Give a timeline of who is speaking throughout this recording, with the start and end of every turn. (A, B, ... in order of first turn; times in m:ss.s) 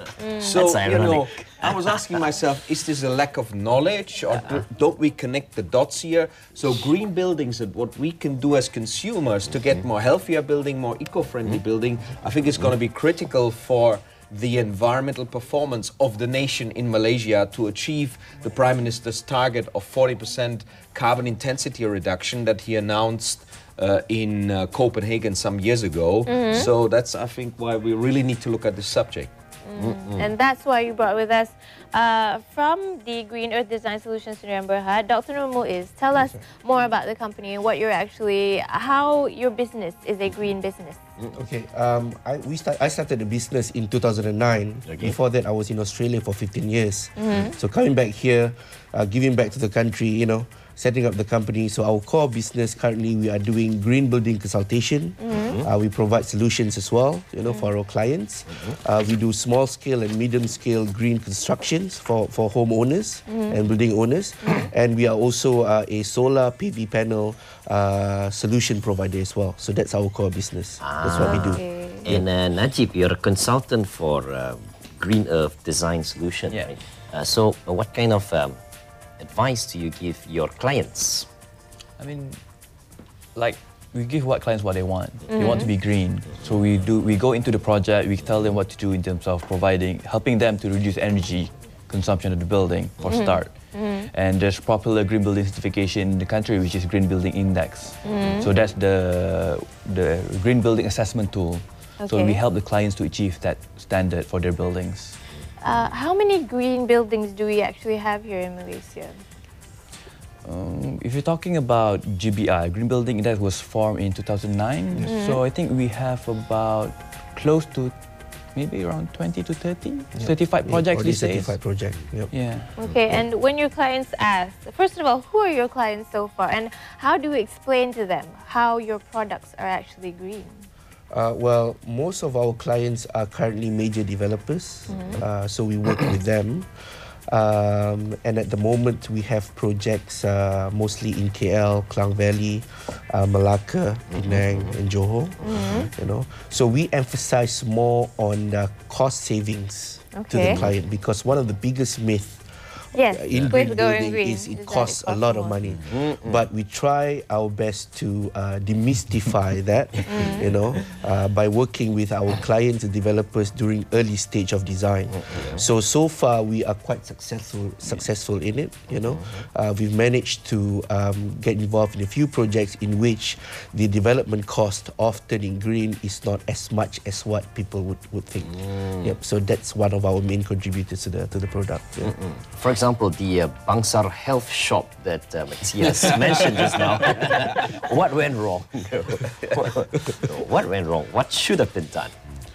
0:00.2-0:00.6 A
0:00.4-0:29.3 B
0:00.5-0:02.1 C
0:26.2-0:26.7 A
0:29.6-0:41.0 A
0:29.8-0:30.3 C
0:36.2-0:36.4 D
0:41.3-1:12.2 D
0:44.8-0:45.2 C
0:47.2-0:47.5 A
0:55.2-0:55.6 A
0:55.4-0:55.7 C
0:57.4-0:57.7 A
1:03.3-1:03.6 A
1:04.4-1:04.7 A
1:10.8-1:18.6 C
1:11.2-1:12.1 A
1:19.2-1:21.3 C
1:22.0-1:22.4 E
1:23.3-1:45.2 E
1:25.3-1:25.7 A
1:33.1-1:34.1 A
1:38.0-1:38.5 A
1:42.0-1:42.4 A
1:45.6-1:49.2 A
1:50.4-2:01.6 E
1:55.0-1:55.4 A
2:00.1-2:02.3 D
2:02.3-2:02.7 E
2:02.8-2:10.6 A
2:11.1-2:16.7 D
2:14.9-2:15.2 A
2:17.3-3:02.1 D
2:24.1-2:24.7 C
2:25.4-2:25.9 A
2:30.1-2:30.6 A
2:32.9-2:35.6 A
2:35.9-2:36.5 C
2:40.1-2:40.5 A
2:40.3-2:40.9 C
2:45.1-2:45.6 C
2:48.9-2:49.4 C
2:58.4-2:59.1 C
3:02.0-3:12.1 C
3:05.8-3:07.1 B